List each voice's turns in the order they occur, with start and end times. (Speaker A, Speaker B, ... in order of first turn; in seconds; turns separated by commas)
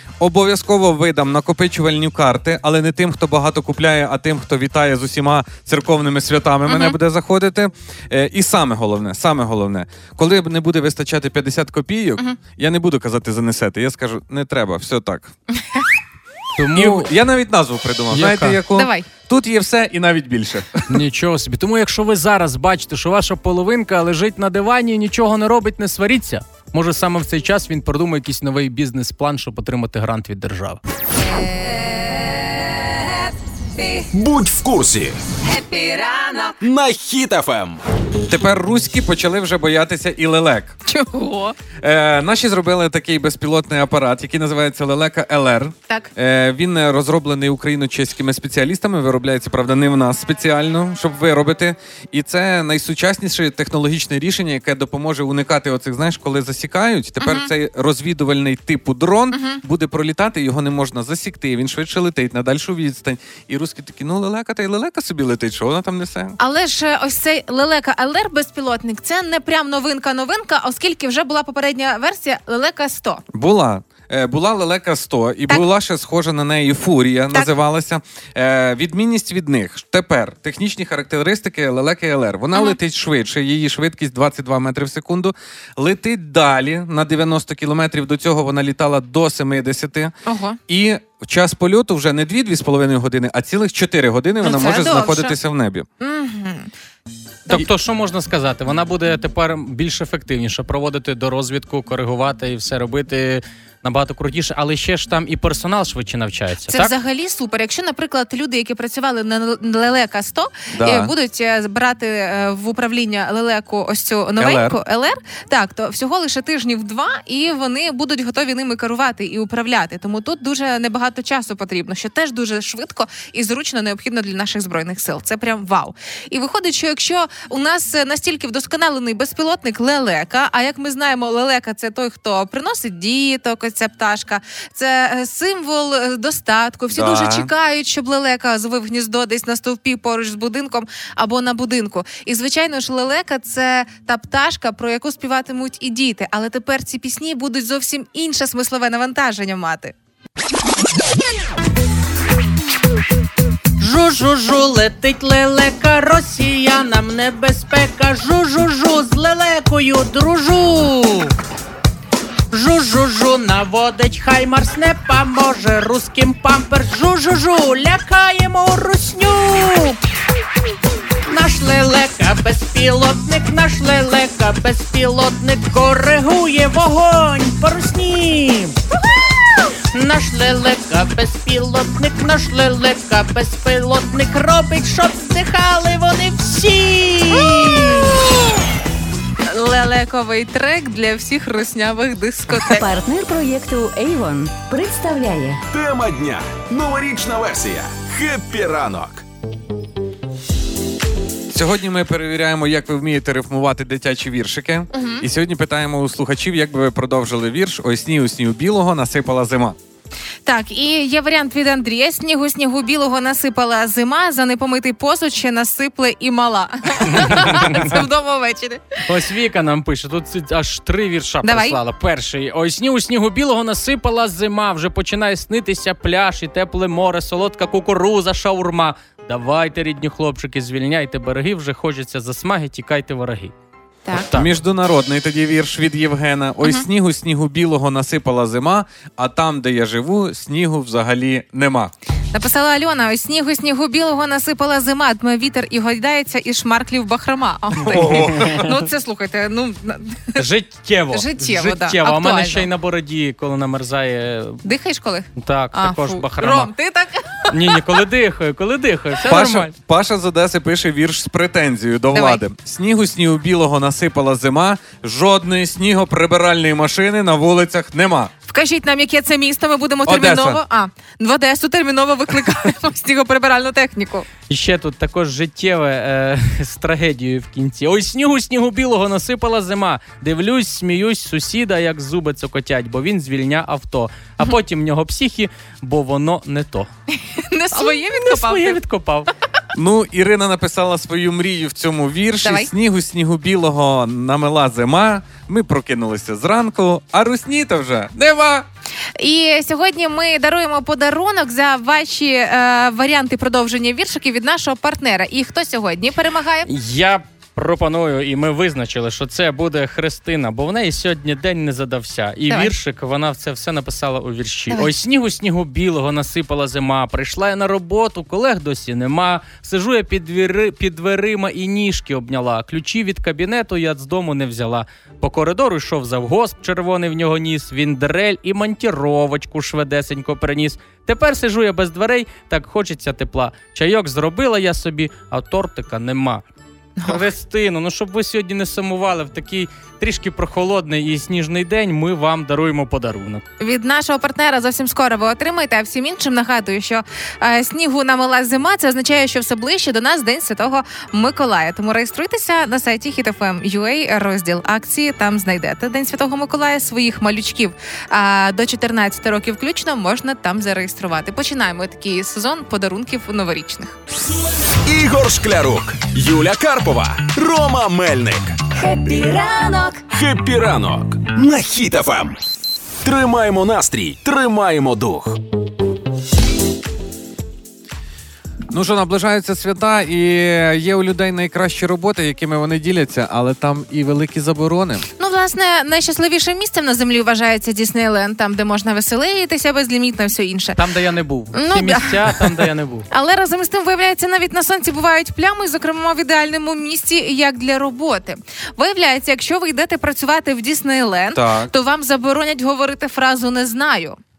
Speaker A: 0.2-15.3, Speaker B: 6.7-7.0, Speaker C: 16.6-17.1, Speaker A: 16.7-20.9, Speaker C: 18.1-18.6, Speaker B: 18.7-19.1, Speaker C: 20.9-30.8, Speaker D: 33.8-34.0, Speaker E: 34.1-35.2, Speaker D: 35.4-36.6, Speaker E: 36.6-37.8, Speaker A: 38.3-40.8, Speaker B: 40.9-41.5, Speaker A: 41.8-66.4, Speaker B: 57.2-57.5, Speaker B: 59.3-59.6, Speaker B: 66.4-73.2, Speaker A: 73.3-90.1, Speaker B: 90.2-90.6, Speaker A: 90.7-95.8, Speaker B: 94.4-95.4, Speaker B: 96.0-96.7, Speaker C: 97.5-106.9, Speaker B: 106.7-149.9, Speaker A: 110.7-111.1, Speaker A: 114.4-114.8, Speaker A: 136.9-137.5, Speaker C: 153.8-161.3, Speaker C: 162.5-170.0, Speaker C: 171.2-178.8, Speaker C: 179.9-188.2, Speaker B: 189.5-192.8, Speaker D: 192.7-195.6, Speaker E: 195.7-199.2, Speaker A: 201.5-209.8, Speaker B: 204.9-205.2, Speaker B: 210.4-219.0, Speaker C: 217.1-217.9, Speaker C: 219.1-233.5, Speaker B: 221.4-221.8, Speaker B: 234.1-234.3, Speaker A: 234.3-241.9, Speaker B: 242.3-250.4, Speaker A: 247.9-248.7, Speaker C: 250.4-254.6, Speaker B: 251.1-252.7, Speaker B: 254.6-257.8, Speaker C: 255.3-256.7, Speaker C: 257.5-259.7, Speaker A: 259.2-268.3, Speaker B: 262.1-262.4, Speaker B: 268.5-274.3, Speaker A: 270.1-270.6, Speaker C: 274.5-286.9, Speaker B: 287.1-288.8, Speaker C: 287.7-289.3, Speaker A: 289.7-298.7, Speaker B: 292.4-292.7, Speaker B: 299.2-306.7, Speaker C: 306.7-336.4, Speaker B: 312.5-312.7, Speaker B: 337.0-337.2, Speaker C: 337.0-343.4, Speaker B: 343.6-364.0, Speaker E: 364.8-368.6, Speaker D: 368.7-370.0, Speaker E: 370.1-372.4, Speaker E: 373.0-375.4, Speaker A: 378.7-385.1, Speaker B: 385.2-390.8, Speaker C: 390.7-393.1, Speaker B: 391.5-392.6, Speaker B: 393.1-404.2, Speaker A: 401.3-401.7